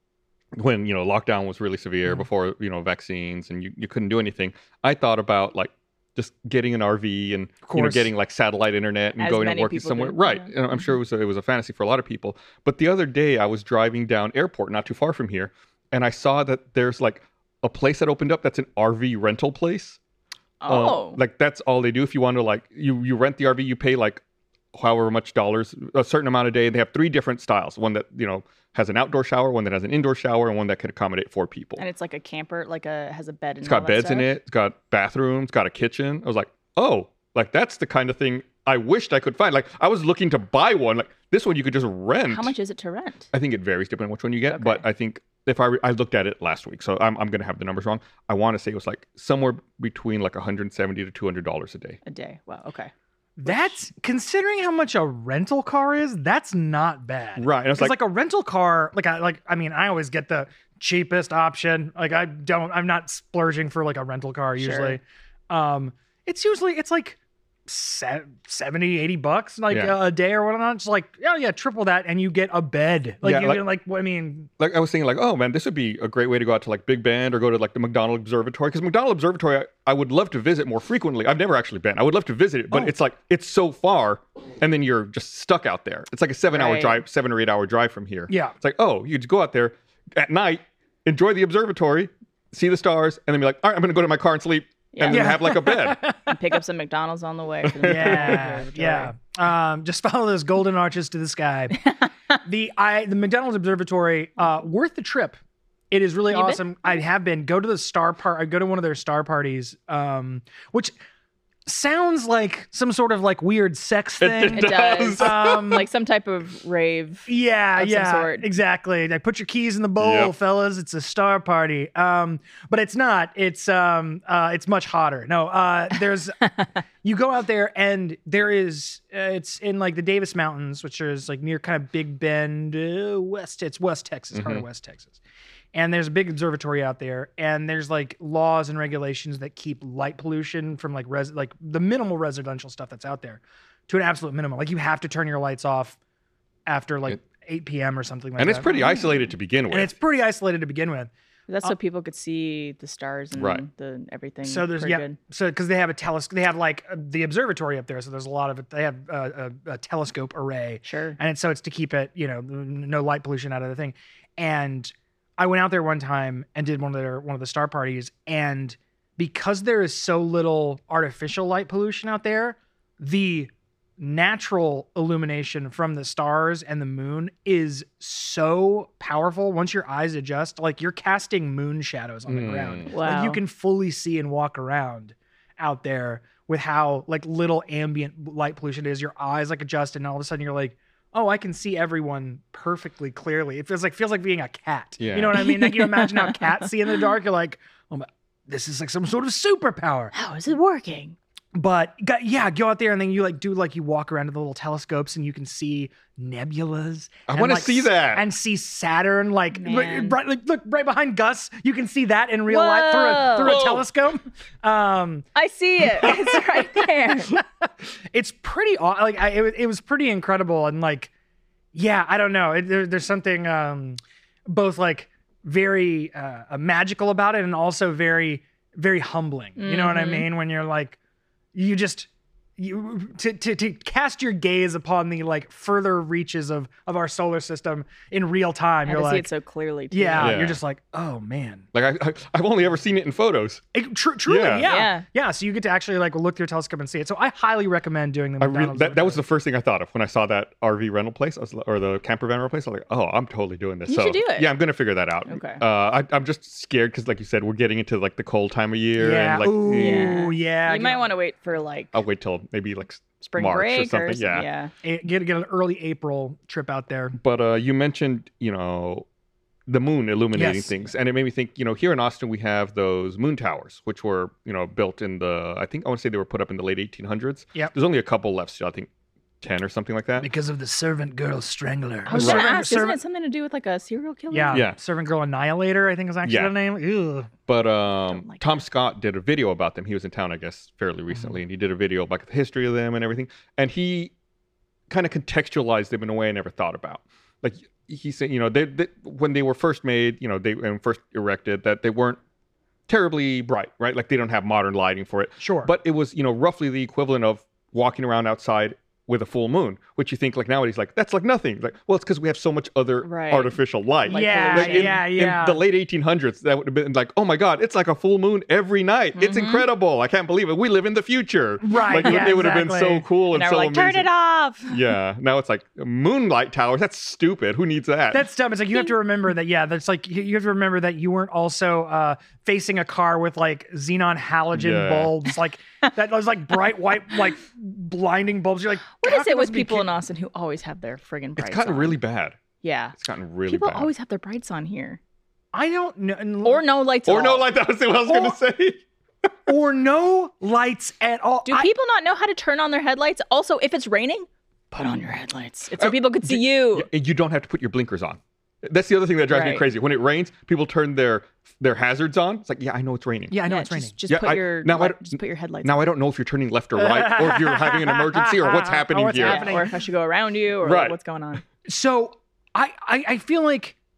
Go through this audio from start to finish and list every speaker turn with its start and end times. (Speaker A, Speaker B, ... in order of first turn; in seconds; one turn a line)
Speaker A: 0.6-20.0
Speaker B: 7.6-8.1
Speaker C: 9.2-10.5
Speaker C: 20.6-21.2
Speaker A: 20.6-24.2
Speaker A: 24.7-31.8
Speaker C: 31.8-34.3
Speaker A: 33.6-42.5
Speaker C: 42.3-43.3
Speaker A: 43.3-52.0
Speaker C: 44.5-44.8
Speaker C: 52.0-52.9
Speaker B: 53.4-74.5
Speaker A: 57.4-58.0
Speaker C: 64.6-65.0
Speaker A: 69.7-70.0
Speaker A: 73.2-73.6
Speaker A: 74.6-96.0
Speaker C: 86.5-87.0
Speaker B: 88.3-88.5
Speaker C: 94.9-99.1
Speaker B: 95.1-96.3
Speaker A: 97.6-98.4
Speaker B: 97.8-101.9
Speaker B: 102.4-105.4
Speaker B: 105.9-110.9
Speaker C: 106.3-106.9
Speaker B: 111.7-115.9
Speaker A: 114.2-115.7
Speaker C: 114.5-118.5
Speaker B: 117.3-135.2
Speaker A: 120.0-120.3
Speaker A: 134.3-134.6
Speaker B: 135.7-146.0
Speaker B: 146.7-148.8
Speaker A: 148.4-149.9
Speaker C: 148.7-149.3
Speaker B: 149.7-151.1
Speaker C: 151.5-155.2
Speaker A: 153.3-153.6
Speaker B: 154.4-200.1
Speaker C: 160.8-161.2
Speaker A: 182.3-182.9
Speaker C: 182.9-183.4
Speaker A: 195.0-195.4
Speaker C: 195.4-196.6
Speaker C: 200.1-201.2
Speaker B: 201.5-215.2
Speaker A: 207.3-208.2
Speaker C: 209.5-210.2
Speaker C: 212.5-213.6
Speaker A: 213.4-213.8
Speaker C: 215.3-217.4
Speaker B: 215.9-216.5
Speaker B: 217.3-221.1
Speaker B: 221.7-231.0
Speaker C: 229.6-230.3
Speaker B: 231.5-239.3
Speaker C: 238.8-240.4
Speaker B: 239.9-241.7
Speaker A: 240.2-240.6
Speaker A: 241.7-243.6
Speaker B: 243.7-249.2
Speaker A: 244.2-244.8
Speaker C: 244.6-245.0
Speaker A: 248.4-260.1
Speaker C: 253.9-254.5
Speaker C: 255.2-255.6
Speaker B: 259.0-261.1
Speaker C: 259.7-262.0
Speaker A: 261.9-264.5
Speaker C: 263.2-264.7
Speaker B: 264.8-267.1
Speaker A: 267.2-269.1
Speaker A: 269.7-278.9
Speaker B: 270.3-270.8
Speaker A: 279.4-280.3
Speaker B: 280.2-283.0
Speaker C: 282.1-284.6
Speaker A: 282.1-282.5
Speaker B: 284.3-287.3
Speaker A: 284.5-284.8
Speaker A: 286.2-286.5
Speaker A: 287.5-294.1
Speaker C: 288.1-288.5
Speaker A: 294.9-302.2
Speaker A: 302.9-324.1
Speaker B: 305.4-305.7
Speaker C: 313.0-313.5
Speaker C: 314.1-315.0
Speaker B: 314.1-315.6
Speaker C: 319.1-319.7
Speaker B: 321.6-323.1
Speaker C: 322.0-322.3
Speaker C: 323.3-324.8
Speaker A: 324.7-328.3
Speaker B: 328.1-339.9
Speaker A: 334.5-335.1
Speaker C: 339.0-342.0
Speaker A: 341.4-342.4
Speaker C: 342.6-345.0
Speaker A: 342.9-343.9
Speaker B: 345.5-346.6
Speaker C: 346.4-347.5
Speaker A: 347.1-348.8
Speaker B: 348.1-348.3
Speaker B: 349.5-351.7
Speaker C: 351.4-356.9
Speaker A: 355.8-363.4
Speaker C: 359.3-359.7
Speaker B: 363.3-363.9
Speaker C: 363.4-365.8
Speaker A: 364.1-369.6
Speaker B: 366.8-369.7
Speaker C: 369.2-371.4
Speaker A: 370.6-370.9
Speaker B: 371.6-373.8